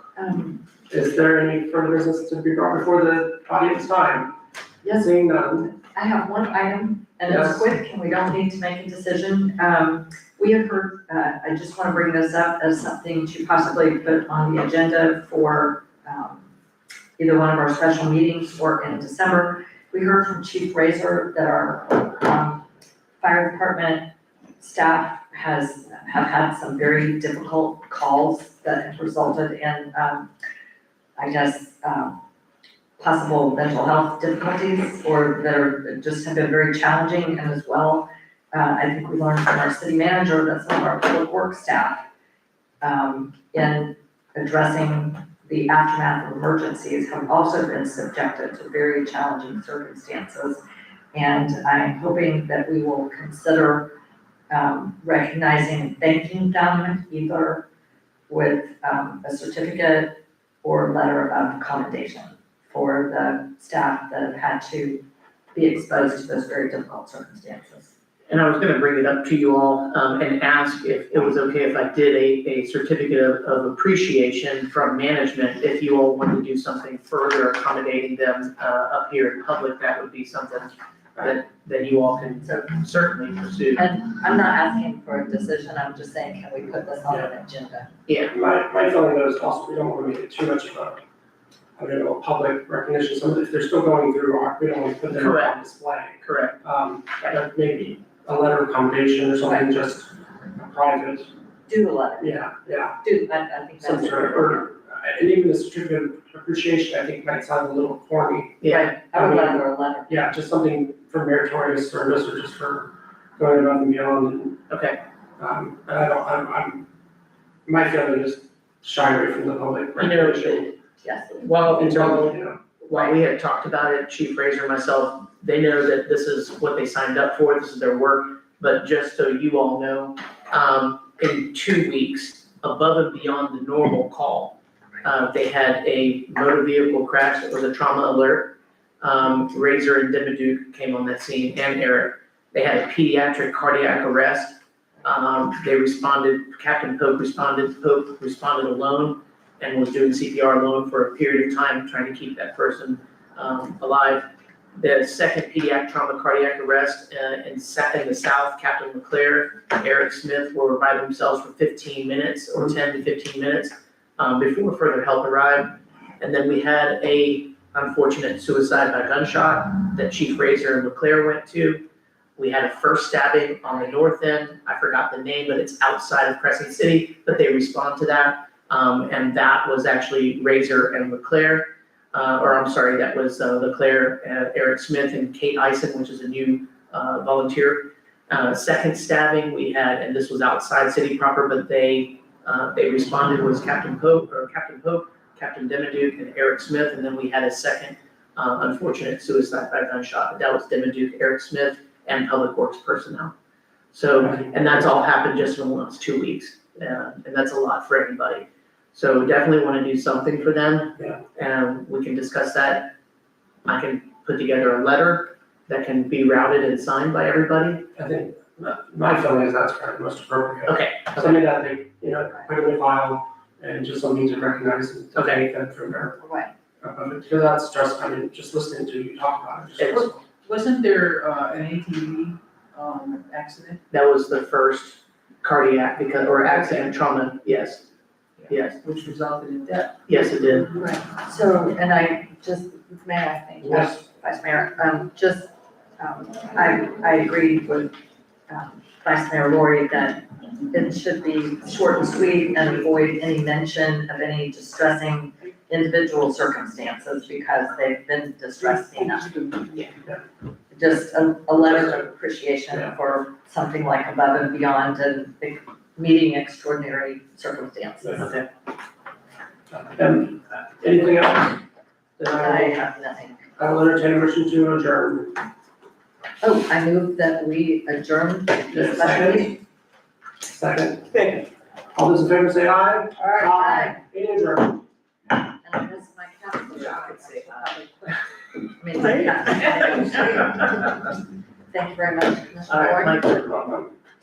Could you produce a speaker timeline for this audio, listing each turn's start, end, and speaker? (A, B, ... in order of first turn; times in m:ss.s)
0:00.2-0:00.6 A
0:00.9-0:04.3 B
0:04.8-0:05.1 A
0:04.9-0:05.7 B
0:05.7-0:16.5 A
0:07.3-0:07.7 B
0:17.2-0:22.7 A
0:23.2-0:30.3 A
0:31.2-0:32.2 A
0:33.0-0:42.0 A
0:42.8-0:50.6 A
0:51.1-0:53.9 A
0:54.5-0:57.7 A
0:58.3-1:07.9 A
1:08.3-1:23.8 C
1:22.4-1:22.7 A
1:23.8-1:27.9 A
1:28.1-1:28.3 C
1:28.3-1:31.0 B
1:31.8-1:41.3 B
1:35.1-1:35.6 C
1:36.2-1:36.6 C
1:41.7-1:42.5 A
1:42.2-1:43.0 B
1:43.0-1:44.7 A
1:43.8-1:48.6 B
1:48.6-1:48.9 C
1:48.7-1:50.2 A
1:49.1-1:54.6 B
1:54.7-1:55.0 C
1:55.4-1:56.9 B
1:57.7-2:00.7 B
2:00.0-2:00.7 C
2:01.0-2:01.5 A
2:01.4-2:51.8 C
2:01.7-2:02.6 B
2:52.4-3:23.3 C
3:23.9-3:32.9 C
3:24.2-3:24.8 B
3:33.6-3:37.9 C
3:38.0-3:46.2 B
3:40.7-3:41.4 C
3:45.2-3:45.4 C
3:46.2-3:46.5 A
3:46.8-3:50.2 B
3:49.8-3:50.1 C
3:50.4-3:53.8 D
3:53.9-3:57.9 C
3:58.5-3:58.8 C
3:58.6-4:00.0 D
4:00.1-4:00.7 C
4:00.7-4:07.9 A
4:08.5-4:19.4 A
4:18.8-4:19.9 D
4:20.7-4:28.3 A
4:21.6-4:22.0 B
4:28.2-4:28.4 C
4:29.7-4:31.6 B
4:32.2-4:32.8 B
4:32.3-4:33.4 A
4:33.6-4:35.4 B
4:36.4-4:39.6 A
4:38.7-4:39.5 B
4:40.5-4:41.3 B
4:41.2-4:41.4 D
4:41.9-4:44.8 B
4:43.4-4:44.0 A
4:45.4-4:51.2 A
4:47.0-4:47.4 C
4:51.7-4:53.3 A
4:52.7-4:53.4 C
4:53.2-4:53.9 B